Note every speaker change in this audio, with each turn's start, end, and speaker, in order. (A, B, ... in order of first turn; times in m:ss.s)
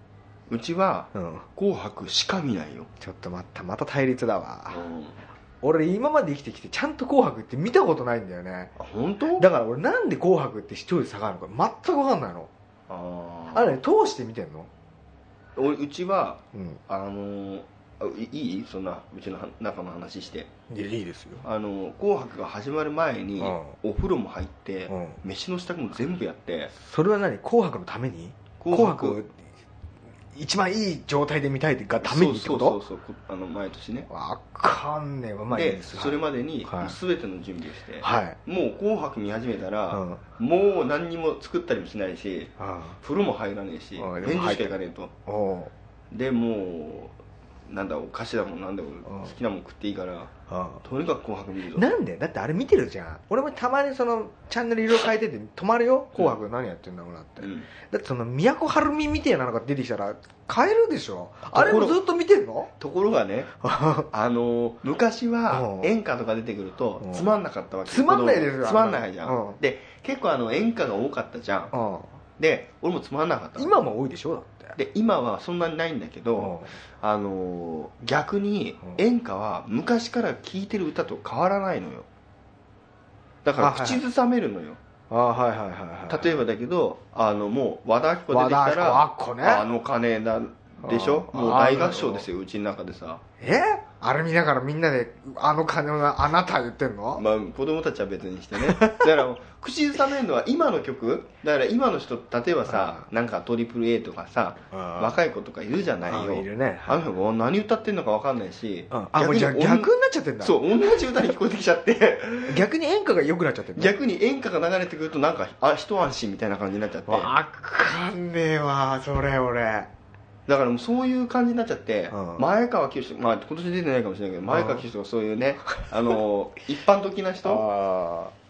0:00.5-0:02.9 A
0:01.1-0:01.5 B
0:03.0-0:04.8 B
0:04.7-0:05.2 A
0:05.6-0:08.7 B
0:08.8-0:09.5 A
0:09.4-0:12.5 B
0:12.9-0:13.7 A
0:13.5-0:14.7 B
0:15.6-0:20.5 A
0:16.5-0:16.8 B
0:20.7-0:21.4 B
0:21.4-0:26.7 A
0:23.4-0:23.7 B
0:24.9-0:25.2 B
0:26.7-0:29.4 B
0:28.6-0:29.2 A
0:30.3-0:32.8 B
0:32.0-0:34.1 A
0:34.1-0:37.0 B
0:35.5-0:45.1 A
0:38.0-0:38.4 B
0:39.9-0:40.2 B
0:42.6-0:43.0 B
0:44.0-0:45.7 B
0:46.1-0:47.2 A
0:47.7-0:51.9 A
0:49.1-0:49.3 B
0:50.5-0:50.8 B
0:51.7-1:02.7 B
0:57.4-0:57.7 A
1:01.5-1:02.0 A
1:02.8-1:03.5 A
1:03.6-1:04.1 B
1:04.1-1:11.7 A
1:05.5-1:05.9 B
1:07.0-1:07.3 B
1:07.9-1:09.6 B
1:11.7-1:12.2 B
1:12.4-1:13.8 A
1:13.6-1:14.8 B
1:14.7-1:22.1 A
1:16.4-1:16.7 B
1:23.4-1:24.8 A
1:23.6-1:24.0 B
1:25.1-1:26.4 B
1:26.1-1:33.2 A
1:28.3-1:29.7 B
1:30.8-1:32.2 B
1:33.4-1:37.2 B
1:37.2-1:52.6 A
1:38.6-1:39.1 B
1:42.7-1:43.0 B
1:44.7-1:45.1 B
1:46.0-1:47.0 B
1:48.9-1:50.6 B
1:52.5-1:53.9 B
1:53.8-1:57.4 A
1:57.1-1:59.9 B
2:00.5-2:07.6 A
2:02.1-2:02.5 B
2:04.5-2:04.8 B
2:07.4-2:08.3 B